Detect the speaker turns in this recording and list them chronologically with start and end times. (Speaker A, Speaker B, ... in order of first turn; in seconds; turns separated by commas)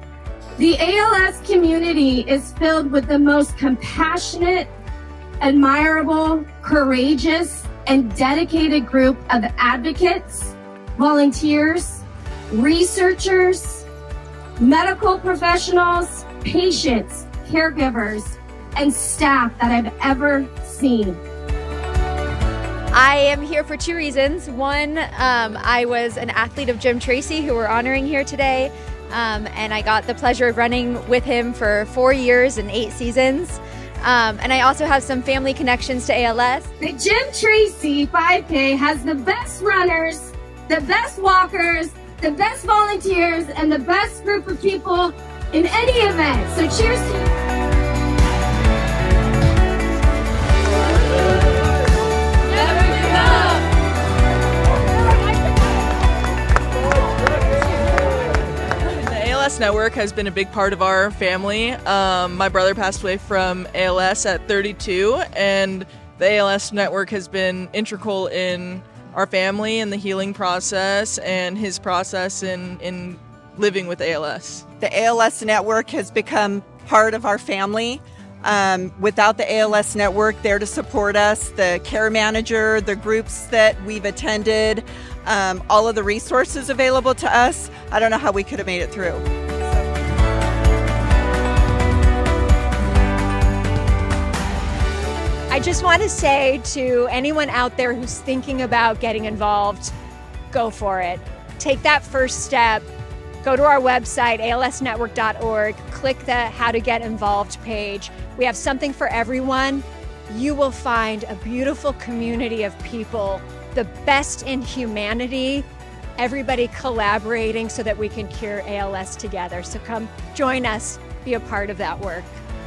Speaker A: 0.6-4.7, Speaker A: 5.4-13.9, Speaker A: 14.6-21.2, Speaker B: 22.9-36.7, Speaker A: 36.8-47.3, Speaker C: 58.8-74.6, Speaker D: 74.8-89.2, Speaker E: 95.5-99.9, Speaker E: 100.5-102.9, Speaker E: 103.4-115.7, Speaker E: 116.2-122.4